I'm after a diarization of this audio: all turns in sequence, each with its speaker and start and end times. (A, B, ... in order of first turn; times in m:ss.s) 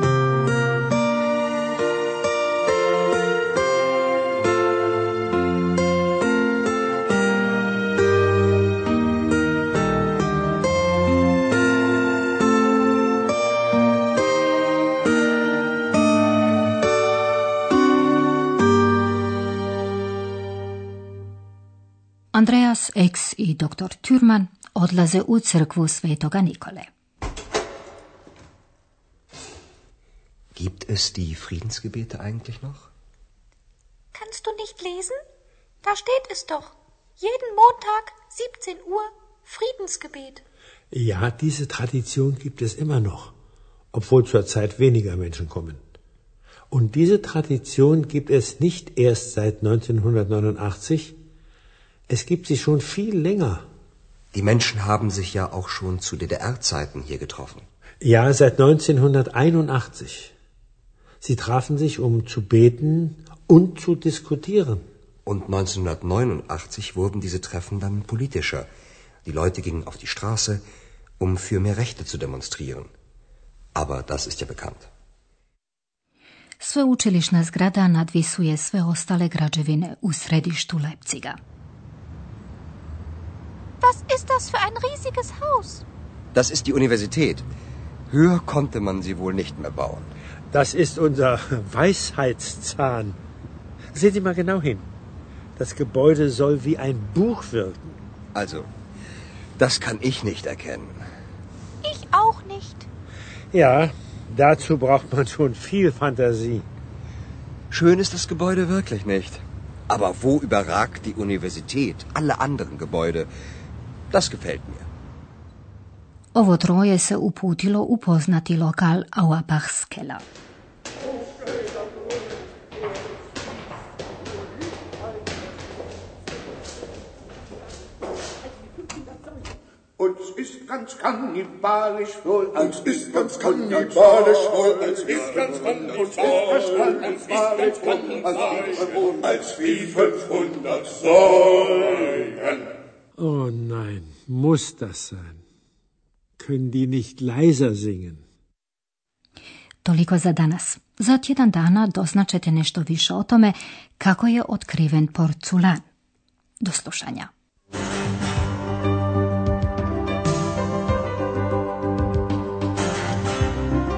0:22.3-0:26.9 A
0:30.6-0:32.9 B
0:34.1-0:35.2 C
0:35.8-0:40.4 C
0:40.9-0:43.3 D
0:43.9-0:45.8 D
0:46.7-0:51.2 D
0:52.1-0:53.6 D
0:54.3-0:57.7 B
0:58.0-1:00.3 D
1:01.2-1:04.8 D
1:05.3-1:08.7 B
1:09.2-1:10.6 B
1:11.2-1:12.9 B
1:13.8-1:14.9 B
1:16.6-1:21.4 A
1:23.8-1:25.8 C
1:26.3-1:27.4 B
1:28.1-1:30.1 B
1:30.5-1:33.2 D
1:33.9-1:34.9 D
1:35.6-1:38.0 D
1:38.4-1:38.7 B
1:39.6-1:41.0 B
1:41.8-1:42.9 C
1:43.5-1:46.7 D
1:47.7-1:53.3 B
1:54.1-1:54.9 B
1:56.3-2:00.2 A
2:10.0-2:20.9 E
2:23.2-2:25.4 D
2:26.4-2:28.2 D
2:29.8-2:35.8 A
2:36.6-2:37.3 A